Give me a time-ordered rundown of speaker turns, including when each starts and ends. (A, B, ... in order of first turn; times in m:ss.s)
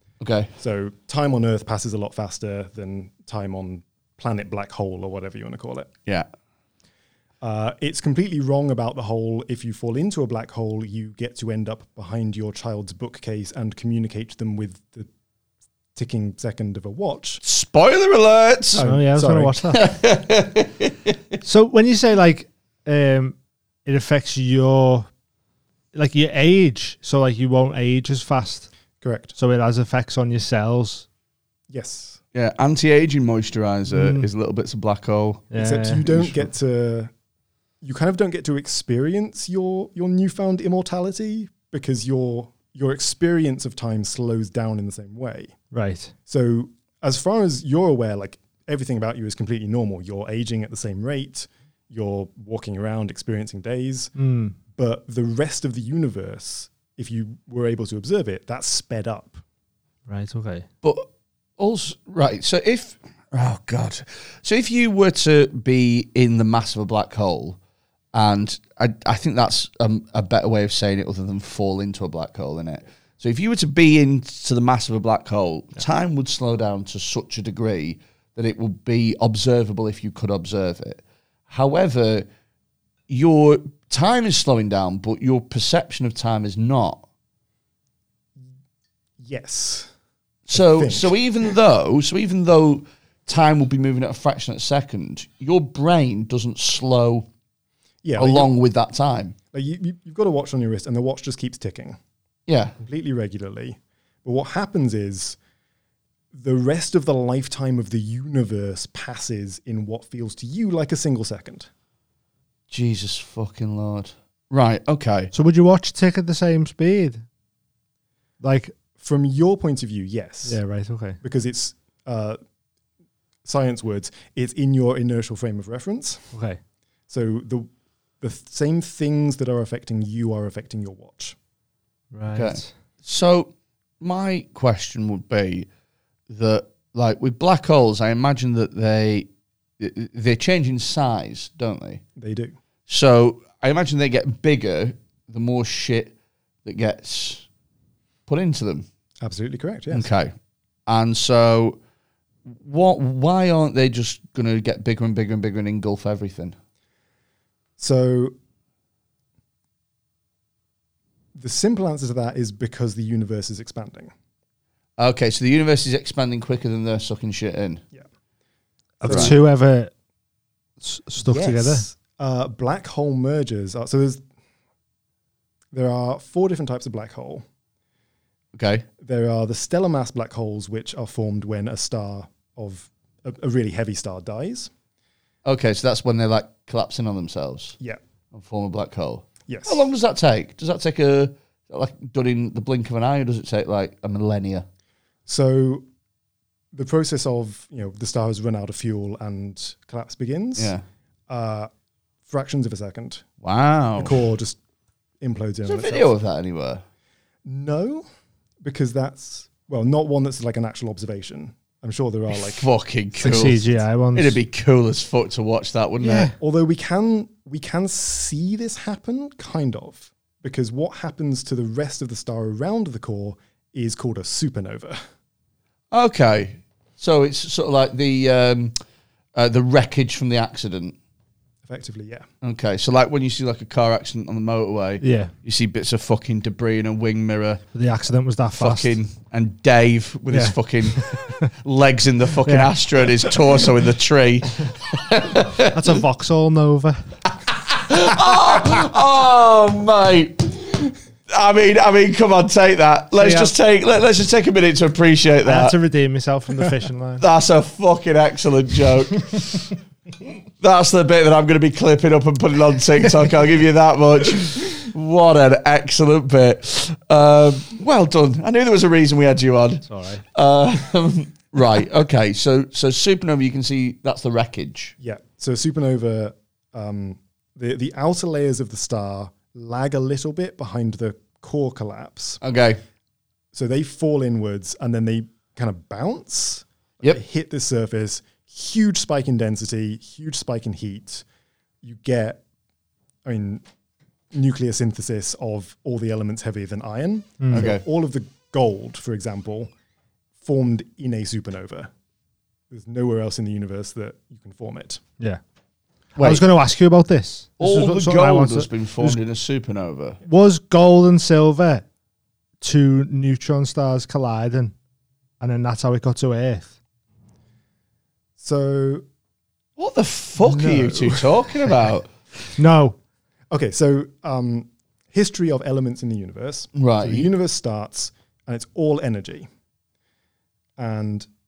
0:00.2-0:00.5 A
0:00.6-0:05.9 B
0:07.4-0:15.1 B
0:15.9-0:17.4 B
0:17.4-0:18.9 A
0:18.8-0:19.6 B
0:18.8-0:19.8 C
0:19.7-0:21.2 A
0:21.4-0:23.4 C
0:23.9-0:25.1 C
0:25.9-0:28.7 C
0:29.0-0:29.3 B
0:29.4-0:31.0 C
0:31.7-0:32.2 B
0:32.3-0:35.4 A
0:33.9-0:34.3 C
0:35.5-0:36.1 C
0:35.5-0:37.1 B
0:37.8-0:45.5 B
0:45.7-0:46.1 C
0:46.3-0:54.1 B
0:54.2-0:54.6 C
0:54.8-0:59.4 B
1:00.1-1:00.6 C
1:00.8-1:01.1 A
1:01.6-1:07.6 A
1:08.1-1:22.3 A
1:23.1-1:27.0 A
1:29.2-1:29.9 B
1:30.5-1:37.3 A
1:30.5-1:31.1 B
1:38.0-1:38.5 B
1:38.2-1:39.4 A
1:39.5-1:42.0 B
1:42.5-1:42.8 A
1:42.8-1:45.4 B
1:46.3-1:51.7 B
1:52.7-1:55.3 A
1:55.3-1:57.2 C
1:58.4-1:58.8 C
1:58.9-2:00.6 B
2:00.4-2:01.2 C
2:01.2-2:02.4 B
2:03.4-2:06.3 B
2:06.3-2:06.6 C
2:07.1-2:07.7 B
2:08.2-2:11.4 B
2:12.1-2:12.7 C
2:12.3-2:15.7 A
2:16.3-2:19.3 A
2:19.8-2:22.0 A
2:22.2-2:22.6 B
2:22.9-2:26.1 A
2:26.6-2:27.5 A
2:28.3-2:28.9 A
2:29.2-2:30.1 B
2:29.9-2:30.3 A
2:30.9-2:31.8 A
2:32.5-2:36.6 A
2:37.8-2:38.3 B
2:41.4-2:44.1 B
2:45.0-2:47.8 A
2:49.0-2:49.4 B
2:49.0-2:49.9 C
2:49.0-2:49.4 A
2:50.8-2:51.8 C
2:51.2-2:54.2 B
2:55.7-2:57.4 B
2:58.6-2:58.9 A
2:59.0-3:04.7 B
3:05.4-3:07.8 A
3:08.3-3:14.6 A
3:09.5-3:09.8 B
3:15.3-3:15.8 B
3:16.7-3:20.7 B
3:20.6-3:20.8 A
3:21.3-3:21.7 B
3:22.3-3:23.2 B
3:23.4-3:24.2 A
3:24.0-3:24.6 B
3:25.2-3:26.1 B
3:25.6-3:26.8 A
3:27.4-3:28.0 B
3:28.6-3:32.7 B
3:32.3-3:36.3 A
3:33.2-3:34.4 C
3:33.2-3:33.5 B
3:36.0-3:36.4 C
3:36.4-3:45.0 B
3:45.9-3:48.8 A
3:49.4-3:51.0 A
3:51.6-3:52.2 B
3:52.4-3:57.6 A
3:55.0-3:55.3 C
3:57.7-3:59.0 C
3:58.6-4:06.0 A
4:00.3-4:01.1 C
4:02.4-4:02.7 C
4:05.6-4:07.0 C
4:07.4-4:15.8 A
4:13.2-4:13.5 C
4:15.4-4:17.2 C
4:17.2-4:19.7 A
4:20.6-4:34.9 A
4:29.9-4:30.2 C
4:35.0-4:42.4 B
4:42.4-4:42.8 A
4:43.5-4:51.2 B
4:51.8-4:52.4 B
4:53.2-4:53.6 B
4:54.3-4:59.7 B
4:57.4-4:57.7 C
4:57.5-4:57.8 A
5:00.4-5:01.9 B
5:02.7-5:05.0 B
5:06.2-5:06.4 A
5:06.2-5:09.2 C
5:07.6-5:10.2 A
5:10.2-5:11.8 C
5:12.6-5:14.7 C
5:15.4-5:16.7 C
5:18.4-5:19.0 B
5:19.8-5:22.1 A
5:20.4-5:21.3 B
5:22.6-5:23.0 C
5:23.5-5:29.5 B
5:26.7-5:27.3 A
5:30.8-5:31.3 B